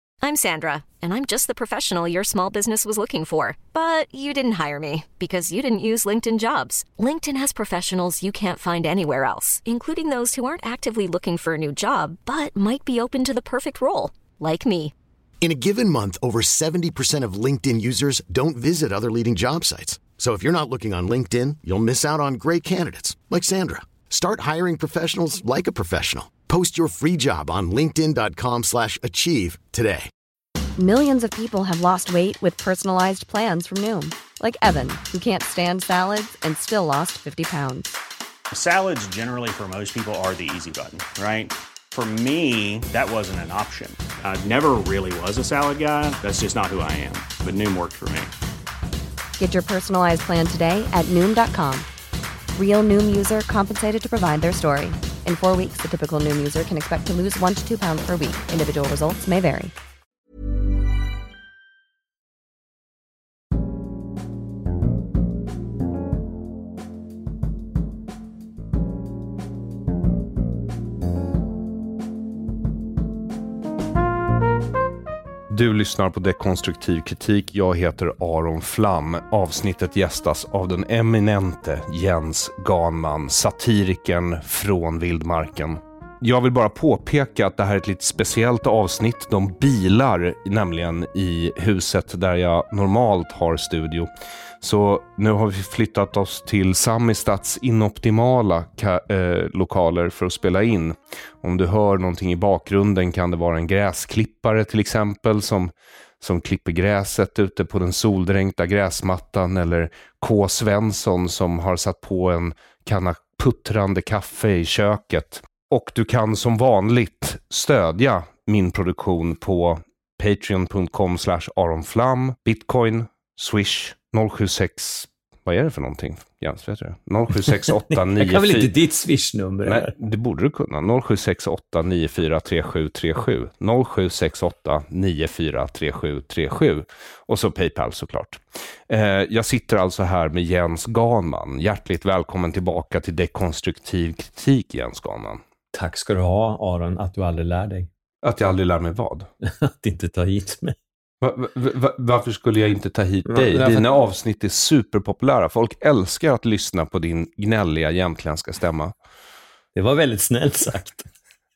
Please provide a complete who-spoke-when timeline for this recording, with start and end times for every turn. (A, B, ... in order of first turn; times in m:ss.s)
0:00.2-0:14.9 A
0:15.4-0:30.1 B
0:30.8-0:37.9 C
0:38.5-0:48.3 D
0:49.4-0:51.9 C
0:52.5-0:59.7 C
1:15.5-2:08.7 E
2:07.9-2:09.9 F
2:09.6-2:25.4 E
2:25.7-2:27.9 F
2:28.2-2:29.3 E
2:29.4-2:30.8 F
2:31.2-2:38.9 E
2:33.3-2:33.9 F
2:39.7-2:41.1 F